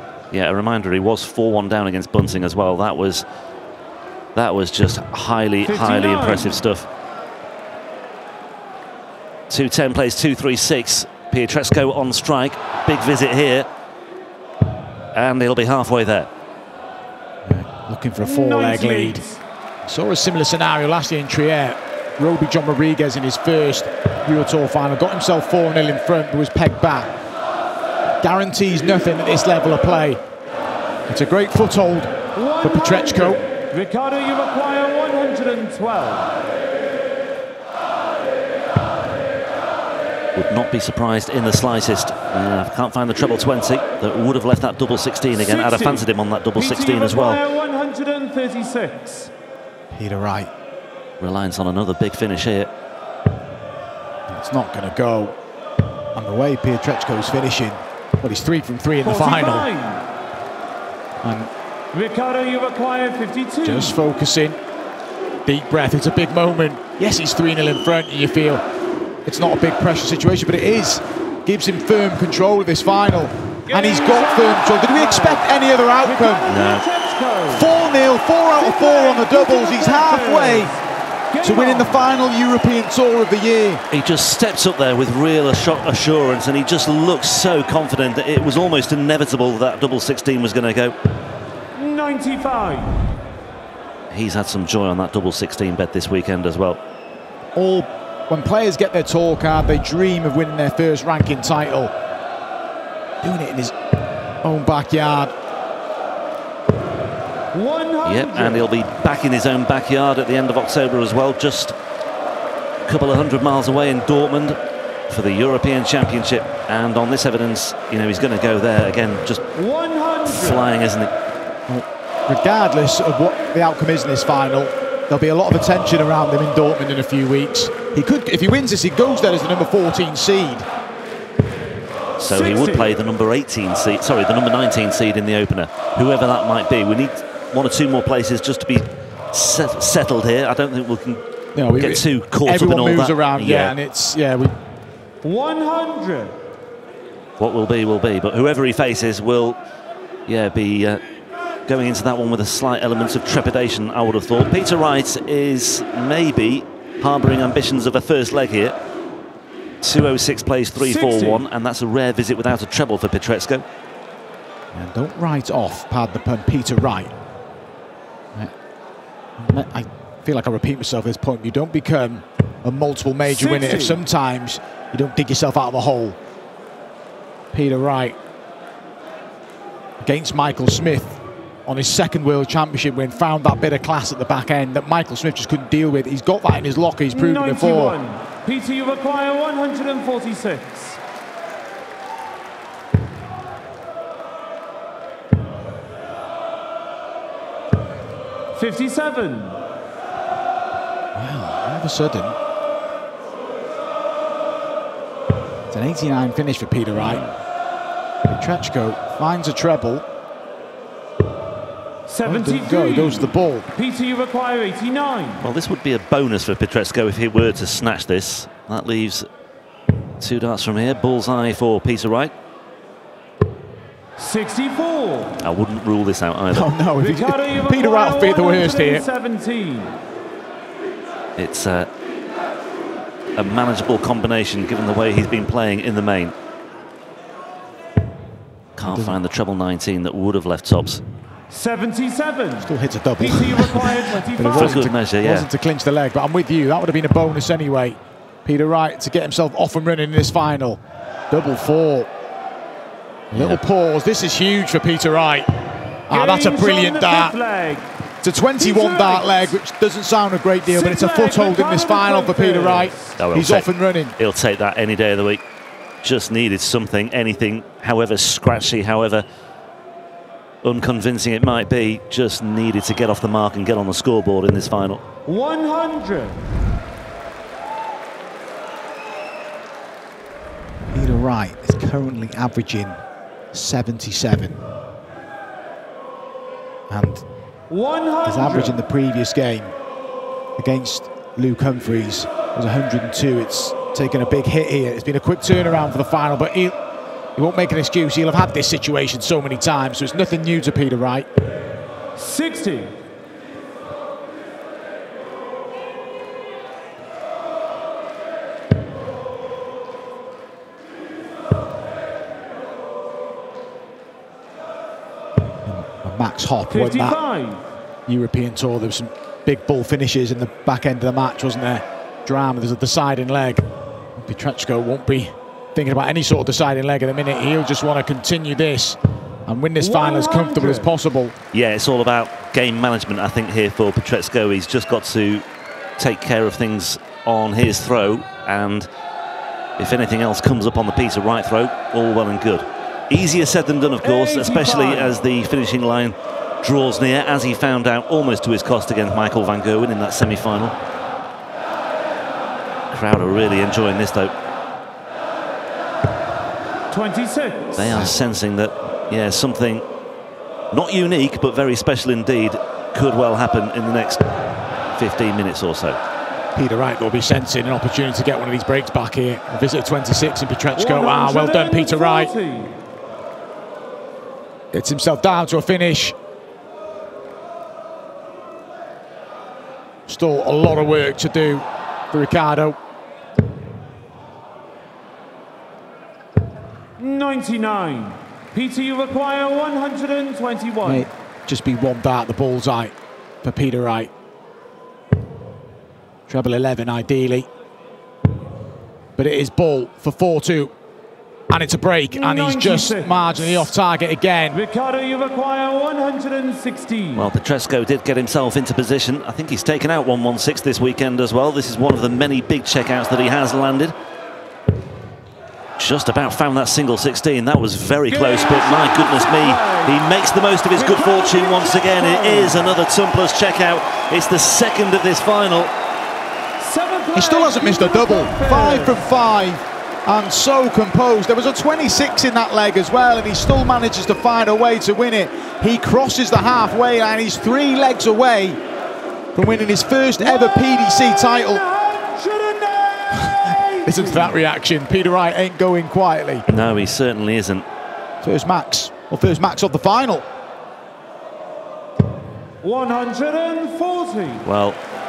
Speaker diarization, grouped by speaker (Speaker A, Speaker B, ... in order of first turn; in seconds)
Speaker A: 0.3-3.2, 4.3-6.9, 9.5-13.7, 15.1-16.3, 40.4-47.4, 51.2-52.7, 76.5-76.8, 83.9-90.9, 94.1-96.8, 108.0-111.7, 112.8-119.5, 120.2-121.1, 132.2-141.2, 141.7-143.7, 147.4-149.6, 150.3-151.0, 151.7-158.8, 159.8-163.6, 206.9-207.3, 215.4-219.3, 220.2-222.3, 225.4-226.7, 231.4-231.9, 233.4-236.3, 238.8-241.0, 244.5-245.5, 253.3-253.6, 263.2-265.4, 266.0-269.2, 270.6-275.0, 331.5-335.4, 336.0-338.9, 339.8-350.7, 352.9-354.3, 357.8-359.8, 360.7-364.3, 364.9-366.0, 407.1-413.9, 415.8-425.7, 446.5-447.6, 454.4-454.8
Speaker B: 5.7-6.6, 18.2-19.4, 32.3-36.3, 45.4-49.3, 59.0-60.0, 61.9-64.0, 73.7-75.5, 76.0-77.8, 78.5-82.0, 91.7-93.0, 107.5-108.7, 119.5-120.6, 132.2-132.9, 145.2-146.3, 160.8-161.4, 173.2-174.0, 187.1-191.0, 198.5-199.6, 212.1-215.4, 224.2-225.4, 227.0-229.9, 241.5-244.9, 256.1-257.9, 258.6-259.6, 260.6-263.2, 275.2-276.4, 287.7-288.8, 302.1-302.9, 316.7-317.7, 329.8-330.9, 344.0-345.1, 356.9-358.0, 370.8-372.7, 387.0-391.1, 402.1-403.7, 404.5-407.3, 418.1-420.0, 420.7-422.7, 426.6-429.0, 440.2-444.4, 452.6-454.4
Speaker C: 17.4-19.2, 19.9-27.1, 28.2-30.2, 31.1-33.4, 49.9-50.5, 54.3-55.4, 56.1-59.7, 61.2-61.5, 63.6-64.6, 65.5-68.6, 69.2-76.5, 77.5-80.7, 81.4-83.8, 97.5-101.9, 103.2-103.8, 104.4-105.3, 121.7-130.7, 141.5-144.5, 164.7-167.1, 169.4-176.2, 177.5-178.2, 180.0-188.0, 201.1-202.4, 205.7-207.2, 208.2-210.0, 212.2-213.7, 226.5-229.0, 238.9-239.2, 242.6-252.1, 253.3-255.5, 256.1-257.4, 258.2-264.1, 280.9-283.0, 283.5-284.6, 286.9-287.2, 288.2-289.7, 290.6-296.7, 297.4-301.3, 315.6-317.2, 318.1-331.3, 366.5-372.3, 374.7-376.1, 380.1-382.8, 390.8-394.1, 396.3-397.5, 399.2-400.7, 401.5-404.6, 427.1-438.6, 439.3-441.6, 443.2-446.4, 448.2-450.2